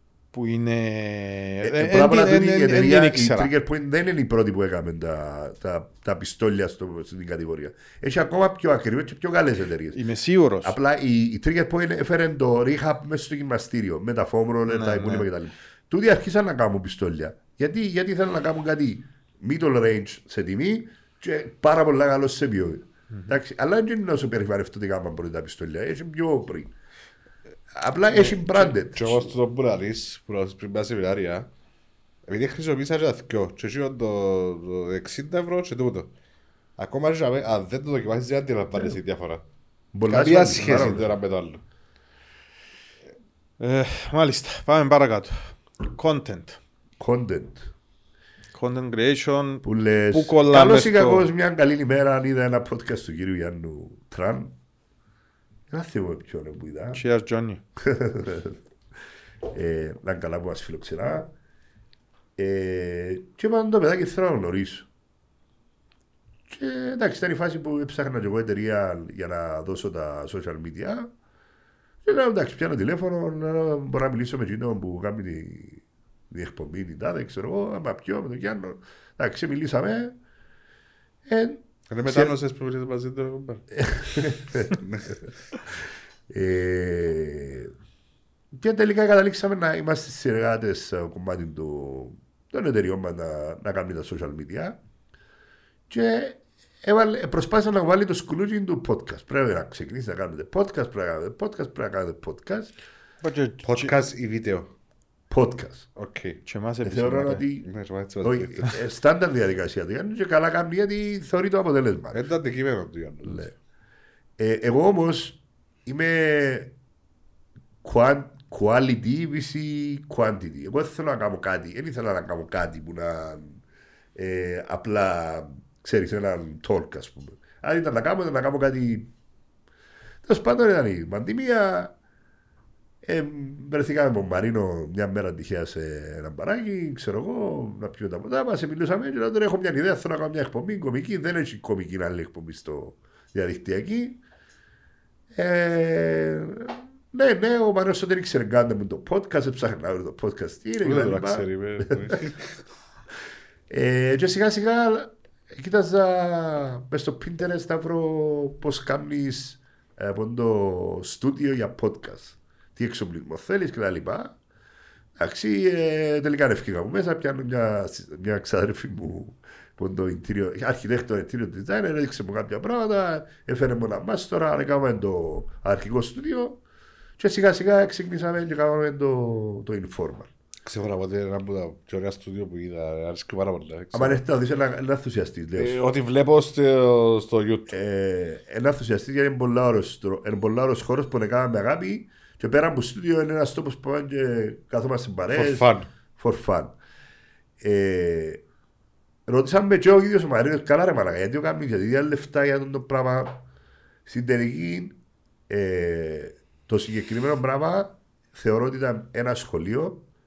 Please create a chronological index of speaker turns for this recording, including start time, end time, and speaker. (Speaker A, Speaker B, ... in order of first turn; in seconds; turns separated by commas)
Speaker A: 0.3-3.5, Speaker B: 1.6-10.0, Speaker A: 9.9-10.8, Speaker B: 10.6-26.7, Speaker A: 14.7-15.3, Speaker B: 27.7-29.3, Speaker C: 28.1-31.5, Speaker C: 32.3-36.1, Speaker C: 36.8-39.4, Speaker B: 39.9-41.1, Speaker C: 40.0-41.6, Speaker A: 43.6-46.6, Speaker B: 47.0-47.7, Speaker A: 48.5-51.3, Speaker B: 49.6-54.5, Speaker B: 55.7-57.0, Speaker A: 56.9-57.6, Speaker B: 57.8-58.6, Speaker B: 59.5-61.3, Speaker B: 62.4-64.9, Speaker B: 66.5-71.1, Speaker B: 72.0-80.2, Speaker B: 81.2-82.3, Speaker C: 81.9-83.7, Speaker B: 83.8-84.8, Speaker C: 84.7-85.2, Speaker B: 86.3-87.7, Speaker B: 88.5-94.8, Speaker B: 95.9-102.7, Speaker A: 103.2-103.9, Speaker C: 103.6-104.7, Speaker B: 105.3-105.9, Speaker C: 105.9-106.4, Speaker A: 106.5-107.4, Speaker B: 106.8-107.7, Speaker C: 107.6-108.8, Speaker B: 108.2-112.2, Speaker C: 112.1-113.5, Speaker B: 113.2-113.5, Speaker B: 114.4-116.7, Speaker B: 117.8-123.6, Speaker B: 124.1-129.1, Speaker B: 130.2-131.9, Speaker B: 133.0-144.2, Speaker B: 145.3-152.2, Speaker C: 150.8-152.6, Speaker B: 153.7-164.4, Speaker B: 165.2-176.6, Speaker B: 177.2-180.3, Speaker C: 180.6-184.2, Speaker B: 183.9-185.8, Speaker C: 185.6-187.7, Speaker B: 187.7-196.7, Speaker C: 195.3-195.9, Speaker B: 197.6-198.4, Speaker B: 199.3-203.4, Speaker B: 204.1-204.9, Speaker B: 205.5-210.0